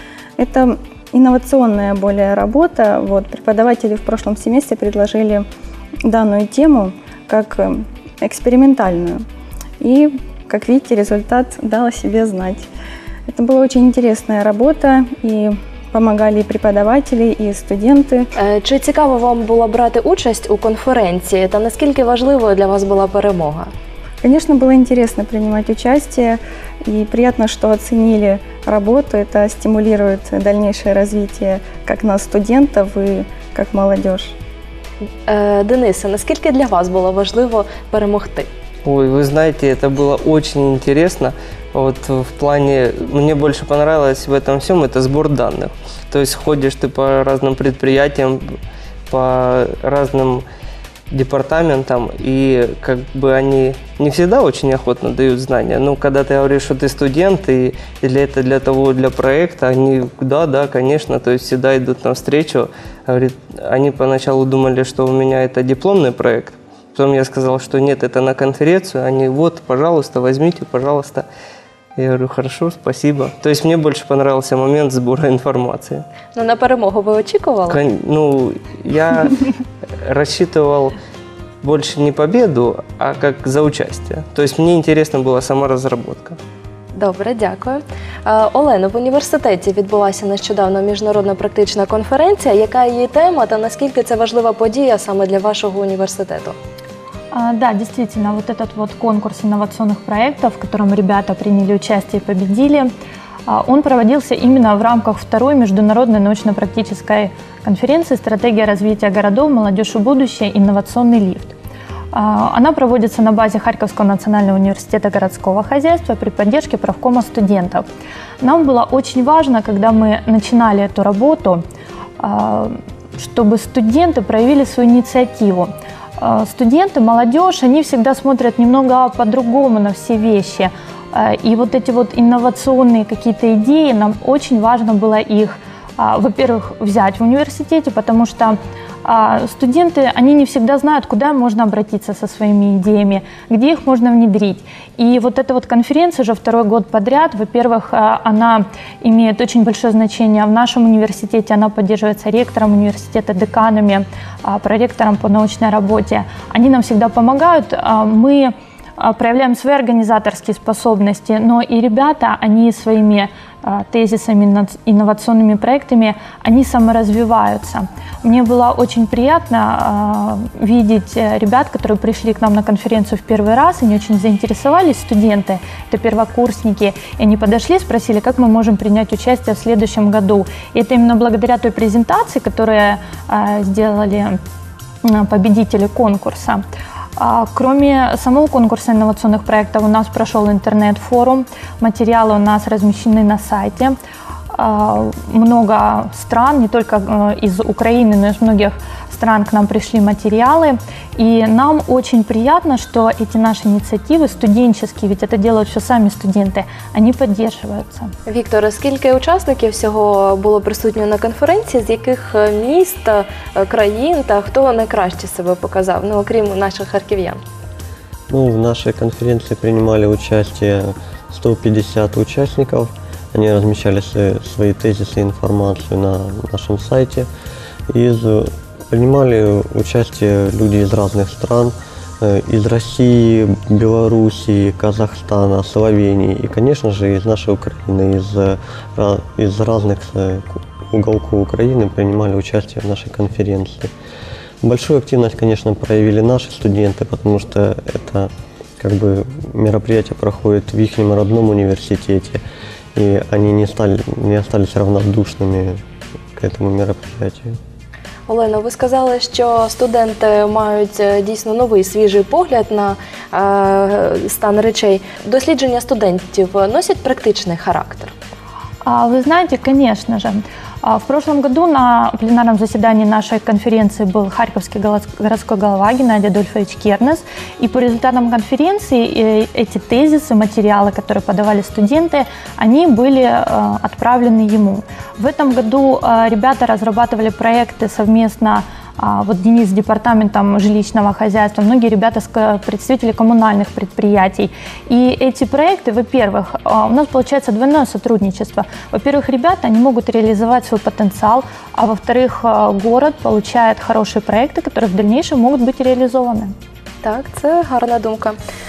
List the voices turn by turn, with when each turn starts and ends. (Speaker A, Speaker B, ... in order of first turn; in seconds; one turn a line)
Speaker A: 0.4-5.5
Speaker A: 6.0-9.2
Speaker A: 9.8-12.7
Speaker A: 13.3-18.3
Speaker B: 18.4-23.7
Speaker A: 24.2-34.3
Speaker B: 35.3-38.5
Speaker C: 38.9-48.4
Speaker C: 49.1-50.5
Speaker C: 51.1-71.3
Speaker C: 72.0-76.0
Speaker B: 76.3-77.8
Speaker C: 77.7-79.4
Speaker C: 80.0-81.0
Speaker C: 81.6-86.4
Speaker B: 87.0-96.6
Speaker D: 97.3-102.9
Speaker D: 103.5-111.5
Speaker D: 112.1-117.8
Speaker D: 118.4-121.6
Speaker D: 122.2-184.4
Speaker D: 185.0-186.6
Speaker D: 187.2-193.9
Speaker D: 194.5-208.1
Speaker B: 208.3-217.4
Speaker E: 218.3-227.3
Speaker E: 227.9-243.9
Speaker E: 244.6-252.4
Speaker E: 252.9-255.8
Speaker E: 256.4-257.6
Speaker B: 258.3-268.1
Speaker D: 268.9-306.5
Speaker B: 307.0-308.4